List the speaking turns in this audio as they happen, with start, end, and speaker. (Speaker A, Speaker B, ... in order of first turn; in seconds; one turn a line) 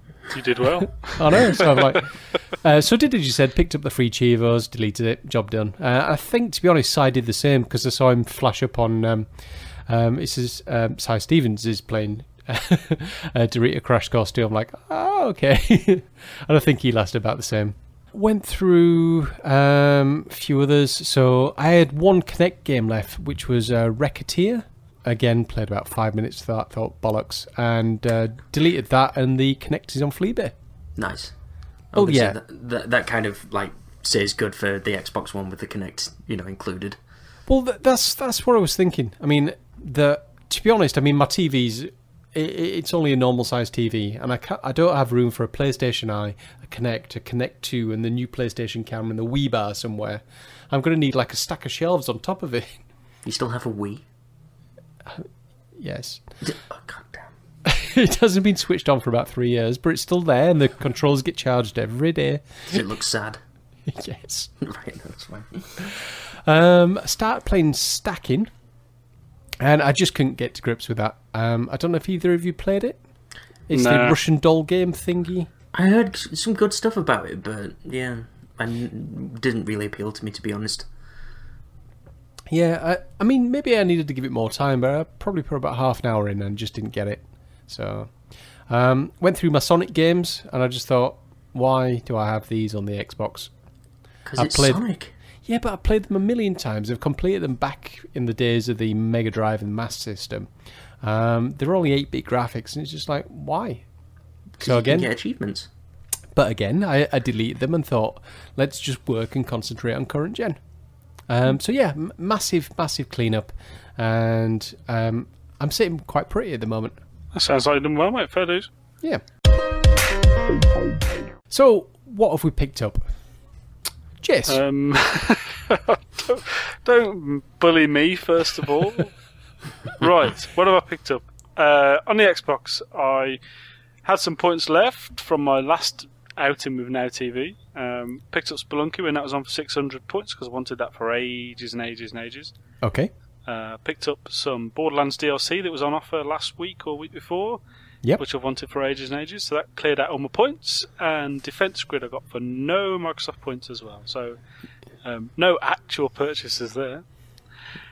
Speaker A: 0.3-2.0
Speaker B: 1.1-9.3
Speaker B: 9.9-30.6
Speaker C: 31.0-31.3
Speaker C: 31.9-37.0
Speaker B: 31.9-32.4
Speaker B: 37.5-52.8
Speaker C: 53.2-54.0
Speaker B: 55.1-56.2
Speaker C: 56.4-57.3
Speaker B: 57.6-62.8
Speaker C: 62.7-63.4
Speaker B: 63.9-64.5
Speaker C: 64.6-65.9
Speaker B: 65.8-68.5
Speaker B: 69.6-73.0
Speaker B: 73.7-75.5
Speaker A: 73.7-74.2
Speaker C: 75.7-80.9
Speaker B: 82.5-88.1
Speaker B: 88.7-93.5
Speaker C: 94.2-95.1
Speaker B: 94.4-94.8
Speaker B: 95.5-100.5
Speaker B: 101.0-103.8
Speaker C: 104.6-105.7
Speaker B: 104.6-105.1
Speaker B: 106.3-110.6
Speaker B: 111.3-117.0
Speaker A: 117.3-118.7
Speaker B: 121.5-123.0
Speaker B: 124.2-124.6
Speaker A: 124.5-129.1
Speaker A: 129.9-133.4
Speaker A: 134.1-142.5
Speaker B: 142.8-143.1
Speaker A: 143.4-147.6
Speaker A: 148.2-154.4
Speaker A: 155.0-157.1